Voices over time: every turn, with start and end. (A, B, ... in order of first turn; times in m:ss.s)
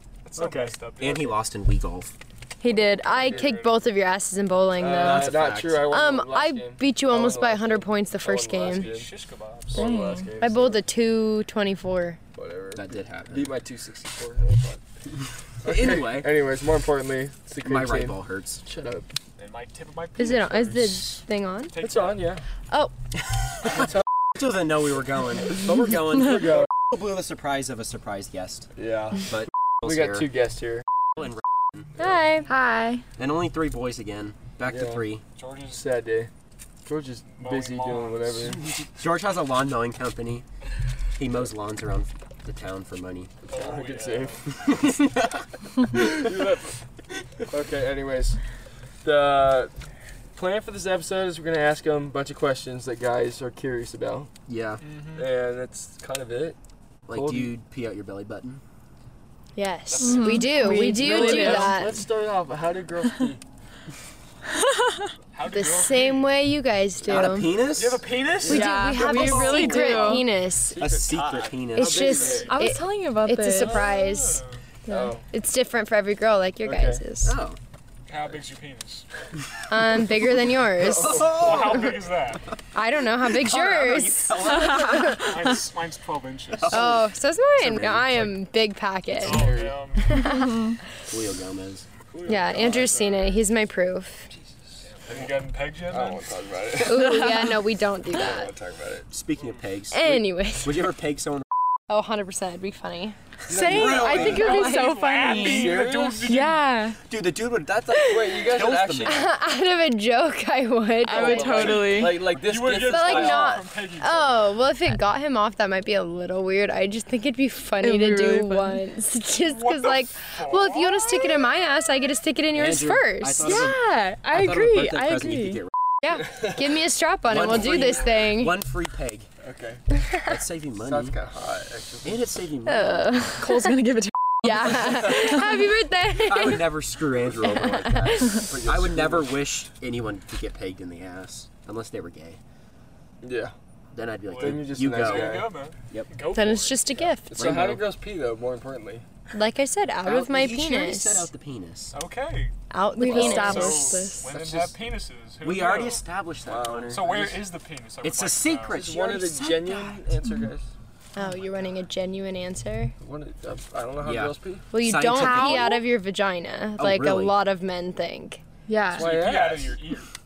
0:00.2-0:01.4 A
0:00.4-0:00.7 B
0:00.5-0:02.1 C
0:02.6-0:08.9 D
0:02.6-0:03.8 A
0:04.8-0:09.1 B
0:04.8-0:06.0 C
0:08.6-0:09.9 A
0:09.7-0:10.8 B
0:09.7-0:10.3 E
0:10.4-0:12.2 D
0:12.3-0:14.8 B
0:12.7-0:13.5 C
0:15.6-0:19.1 B
0:15.6-0:16.3 C
0:17.6-0:18.6 C
0:19.4-0:22.4 A
0:20.2-0:21.7 D
0:21.8-0:22.4 B
0:23.7-0:28.7 C
0:26.4-0:26.7 B
0:28.8-0:29.2 B
0:29.3-0:30.3 C
0:29.8-0:30.8 B
0:31.2-0:31.8 C
0:32.0-0:32.5 D
0:32.5-0:33.0 E
0:33.2-0:35.2 C
0:34.6-0:35.0 B
0:35.4-0:35.8 A
0:35.7-0:36.3 B
0:36.8-0:38.7 B
0:37.3-0:38.6 A
0:38.9-0:40.4 C
0:41.2-0:43.3 C
0:43.4-0:44.5 B
0:43.5-0:44.4 A
0:44.6-0:45.4 C
0:45.9-0:46.8 B
0:47.5-0:48.4 B
0:49.0-0:49.7 B
0:50.3-0:54.3 B
0:54.5-0:54.8 C
0:54.8-0:55.3 A
0:55.1-0:56.6 B
0:57.1-0:58.6 C
0:57.1-0:57.5 B
0:59.6-1:02.0 D
0:59.9-1:03.4 B
1:00.0-1:01.8 E
1:04.6-1:05.1 E
1:05.3-1:06.3 A
1:05.4-1:07.6 D
1:07.0-1:07.5 B
1:07.1-1:08.1 C
1:07.7-1:12.6 A
1:08.4-1:10.8 D
1:08.5-1:10.3 E
1:10.8-1:12.2 C
1:11.7-1:14.4 D
1:11.8-1:12.7 B
1:12.4-1:13.8 E
1:13.5-1:14.6 A
1:14.8-1:15.2 E
1:14.9-1:15.2 B
1:15.3-1:17.4 D
1:16.6-1:17.0 B
1:17.2-1:17.6 C
1:18.1-1:19.1 A
1:19.7-1:21.7 D
1:20.9-1:21.3 B
1:20.9-1:22.0 C
1:21.1-1:22.4 A
1:22.7-1:25.4 D
1:23.3-1:25.3 C
1:25.2-1:27.0 A
1:26.6-1:27.1 C
1:26.7-1:30.7 D
1:27.6-1:28.4 C
1:29.2-1:29.8 B
1:29.2-1:30.2 A
1:30.1-1:30.8 E
1:31.1-1:31.8 C
1:32.1-1:33.4 A
1:32.2-1:34.3 D
1:34.9-1:36.2 A
1:35.8-1:37.5 B
1:36.8-1:38.5 D
1:38.1-1:39.1 B
1:39.1-1:41.4 C
1:39.9-1:40.9 D
1:41.9-1:45.1 D
1:43.5-1:44.6 B
1:43.5-1:44.6 C
1:44.3-1:47.0 E
1:44.5-1:46.6 A
1:45.3-1:46.4 B
1:47.0-1:49.3 C
1:47.9-1:49.3 B
1:48.0-1:48.4 D
1:49.0-1:52.1 D
1:51.0-1:52.2 E
1:51.1-1:53.6 B
1:51.2-1:54.5 A
1:52.7-2:03.6 D
1:57.8-1:58.8 E
1:59.4-2:01.4 A
2:02.5-2:05.7 C
2:03.4-2:05.6 E
2:06.0-2:08.5 D
2:07.3-2:09.3 C
2:07.4-2:08.3 A
2:09.4-2:09.8 B
2:10.2-2:11.2 C
2:10.8-2:12.2 B
2:12.0-2:13.3 C
2:12.7-2:13.8 D
2:13.4-2:15.4 E
2:14.4-2:18.4 D
2:16.2-2:22.4 C
2:18.5-2:19.3 B
2:23.2-2:23.5 B
2:23.9-2:26.1 C
2:24.3-2:26.9 A
2:24.4-2:25.5 B
2:26.3-2:27.3 D
2:27.2-2:29.0 B
2:27.3-2:27.9 C
2:29.3-2:31.3 D
2:30.0-2:31.9 C
2:31.9-2:32.5 A
2:32.7-2:34.0 D
2:33.0-2:34.3 E
2:33.0-2:33.6 C
2:33.3-2:36.0 A
2:34.2-2:34.7 B
2:35.4-2:37.4 C
2:36.4-2:37.3 B
2:36.9-2:38.8 A
2:38.0-2:40.1 C
2:38.7-2:40.7 B
2:41.1-2:42.9 D
2:43.0-2:44.7 B
2:44.0-2:45.7 C
2:44.7-2:48.4 D
2:45.1-2:45.8 E
2:46.8-2:47.3 C
2:48.7-2:49.1 E
2:48.9-2:49.8 B
2:48.9-2:50.1 A